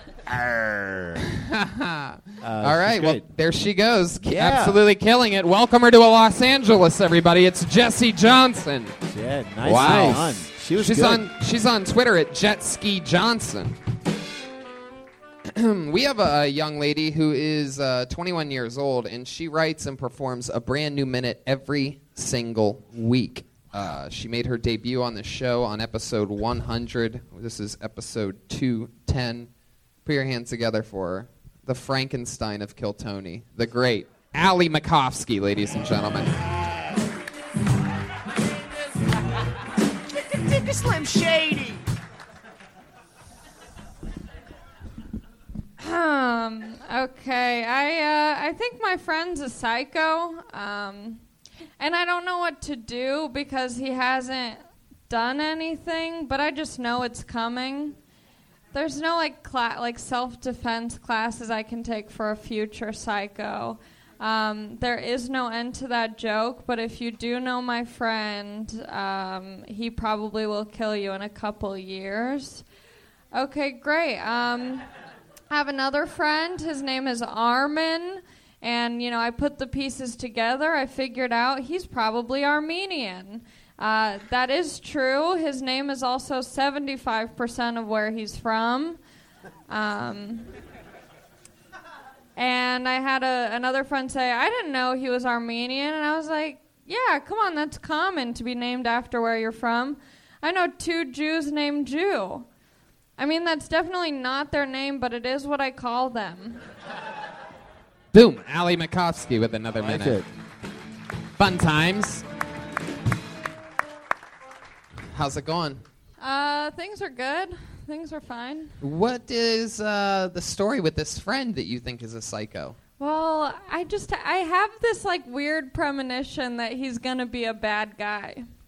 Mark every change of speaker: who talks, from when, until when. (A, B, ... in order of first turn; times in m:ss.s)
0:00.3-0:01.0 A
0:01.4-0:09.0 B
0:02.4-0:03.2 C
0:04.3-0:04.7 A
0:09.1-0:11.2 C
0:09.6-0:13.8 B
0:09.6-0:10.3 A
0:15.5-0:29.5 B
0:30.0-0:36.4 B
0:45.8-0:51.2 D
0:51.8-0:58.0 D
0:58.7-1:12.6 D
1:13.3-1:14.8 D
1:15.5-1:29.0 D
1:29.7-1:30.5 D
1:32.4-1:42.5 D
1:43.2-1:46.6 D
1:48.1-1:50.2 B
1:49.8-1:50.2 A
1:51.4-1:52.2 B
1:55.1-1:55.8 B
1:56.2-1:58.7 D
1:58.8-2:02.8 B
2:03.0-2:08.4 D